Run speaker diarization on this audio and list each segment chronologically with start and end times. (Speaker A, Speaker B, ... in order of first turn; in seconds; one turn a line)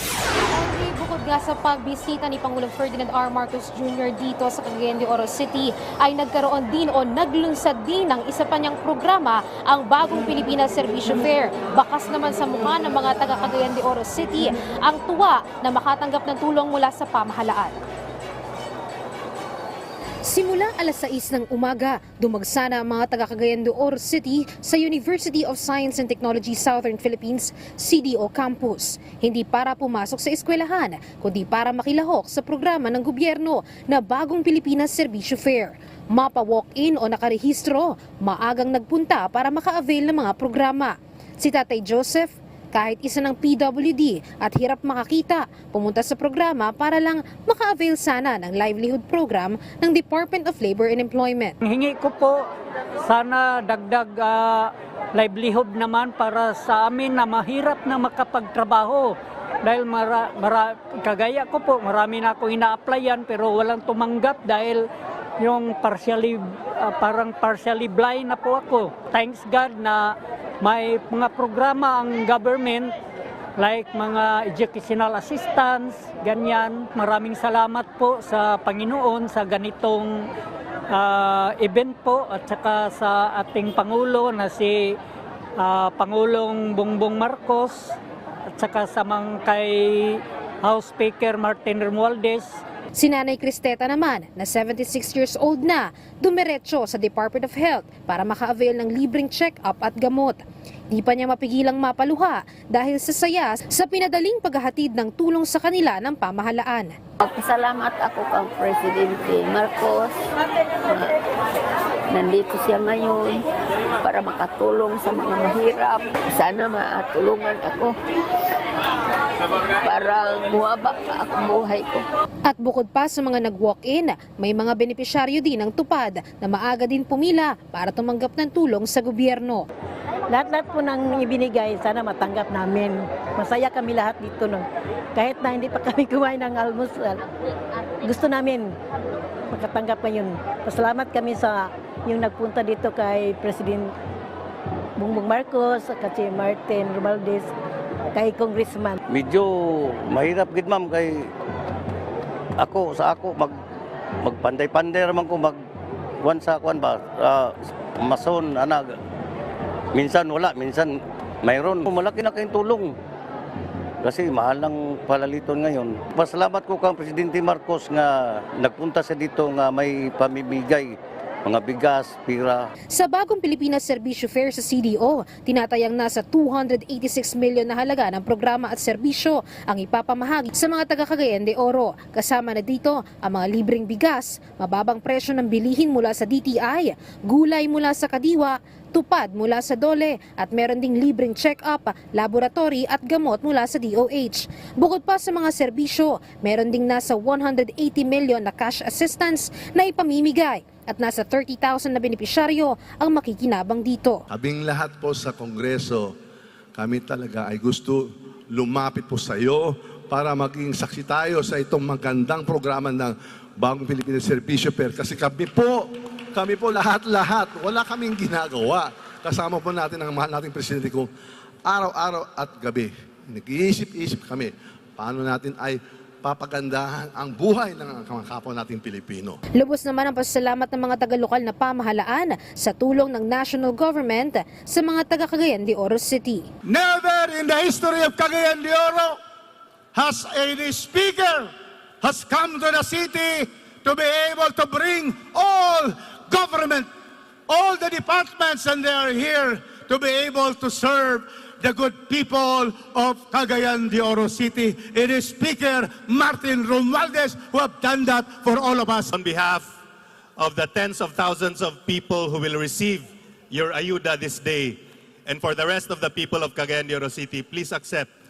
Speaker A: 0.4-17.8
Speaker A: 20.2-51.5
Speaker B: 51.6-52.4
Speaker B: 53.0-64.8
Speaker B: 65.4-72.9
Speaker B: 73.6-80.2
Speaker B: 80.9-84.9
Speaker B: 85.6-87.9
Speaker B: 88.5-92.5
Speaker A: 93.0-106.9
Speaker C: 107.2-110.1
Speaker C: 112.1-113.4
Speaker C: 114.0-117.9
Speaker C: 119.8-122.0
Speaker A: 122.5-129.6
Speaker D: 130.3-137.2
Speaker D: 138.0-138.7
Speaker D: 139.5-143.9
Speaker D: 145.0-147.5
Speaker D: 148.1-149.0
Speaker E: 149.1-151.2
Speaker E: 152.6-153.5
Speaker E: 154.2-155.6
Speaker E: 156.2-157.5
Speaker E: 158.0-158.8
Speaker E: 160.0-160.9
Speaker E: 161.5-162.9
Speaker E: 164.0-170.9
Speaker E: 171.5-172.6
Speaker A: 172.9-204.2
Speaker F: 204.3-206.1
Speaker F: 206.8-221.1
Speaker F: 221.6-229.4
Speaker A: 229.6-236.5
Speaker G: 236.6-239.2
Speaker G: 239.9-246.9
Speaker G: 247.5-259.1
Speaker H: 259.1-259.7
Speaker H: 260.4-268.1